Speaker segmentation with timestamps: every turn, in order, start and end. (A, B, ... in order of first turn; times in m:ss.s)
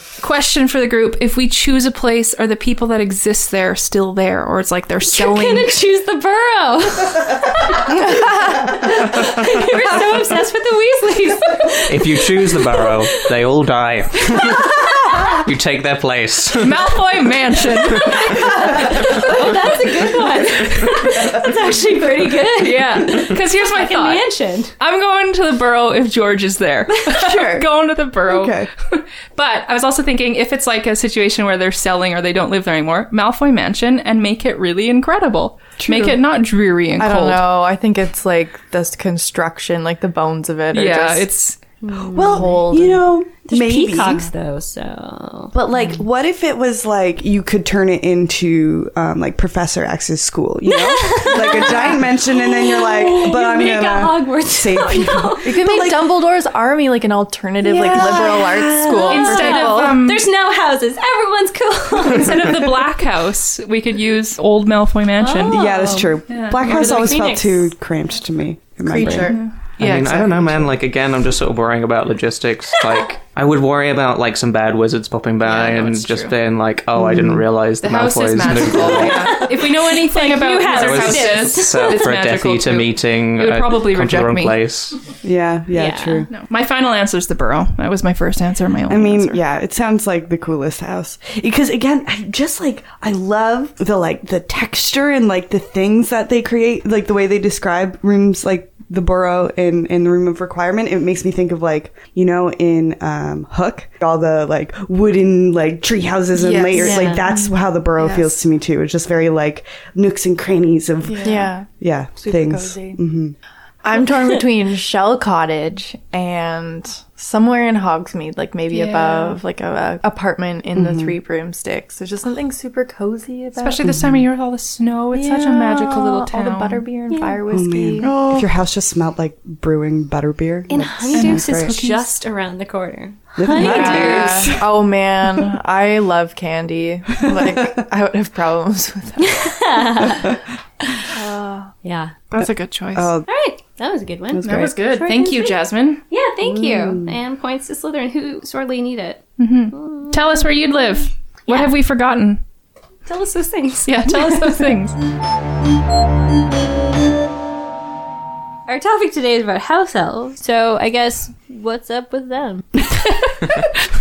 0:00.2-0:05.8 A
0:05.1-0:13.3 B
0:11.9-0:17.0 C
0:14.4-0:14.8 B
0:16.6-0:18.5 A
0:18.0-0:24.7 B
0:22.6-0:24.3 A
0:24.8-0:37.4 A
0:27.1-0:27.7 D
0:28.2-0:28.7 D
0:35.8-0:36.2 D
0:37.0-0:41.3 E
0:40.7-0:41.6 A
0:41.8-0:42.7 B
0:41.9-0:44.3 D
0:42.3-0:43.1 E
0:43.4-0:45.5 B
0:45.5-0:56.2 D
0:50.7-0:55.6 B
0:55.4-1:00.0 E
0:57.6-0:59.2 D
0:57.8-1:02.7 B
0:59.1-1:00.3 A
1:02.0-1:05.6 A
1:05.2-1:07.7 B
1:05.5-1:09.4 D
1:06.3-1:07.0 A
1:08.8-1:09.4 E
1:09.1-1:10.7 A
1:09.8-1:19.4 C
1:15.4-1:16.3 A
1:17.0-1:17.4 D
1:17.8-1:24.6 A
1:19.0-1:22.1 B
1:20.6-1:25.0 C
1:25.2-1:26.3 D
1:25.7-1:26.3 B
1:26.3-1:29.4 A
1:28.9-1:53.4 D
1:46.4-1:46.9 A
1:46.7-1:47.2 E
1:46.8-1:47.3 B
1:48.0-1:48.3 E
1:51.1-1:51.5 A
1:51.2-1:53.0 E
1:53.8-2:04.0 E
1:58.7-1:59.4 A
2:00.8-2:01.2 D
2:03.6-2:06.8 A
2:03.8-2:04.2 D
2:05.1-2:08.3 E
2:07.1-2:07.4 B
2:07.5-2:11.8 D
2:08.0-2:08.4 A
2:10.7-2:14.5 B
2:11.1-2:12.1 A
2:13.4-2:14.7 D
2:13.5-2:20.1 E
2:13.6-2:14.2 A
2:17.2-2:17.8 D
2:19.3-2:21.1 B
2:21.1-2:21.7 E
2:21.8-2:22.1 B
2:22.3-2:23.2 A
2:22.4-2:23.3 D
2:23.3-2:30.7 B
2:24.3-2:24.8 D
2:24.4-2:26.0 A
2:26.4-2:27.2 D
2:29.4-2:32.4 A
2:31.5-2:31.8 B
2:33.1-2:34.5 B
2:33.9-2:35.0 A
2:38.7-2:43.3 B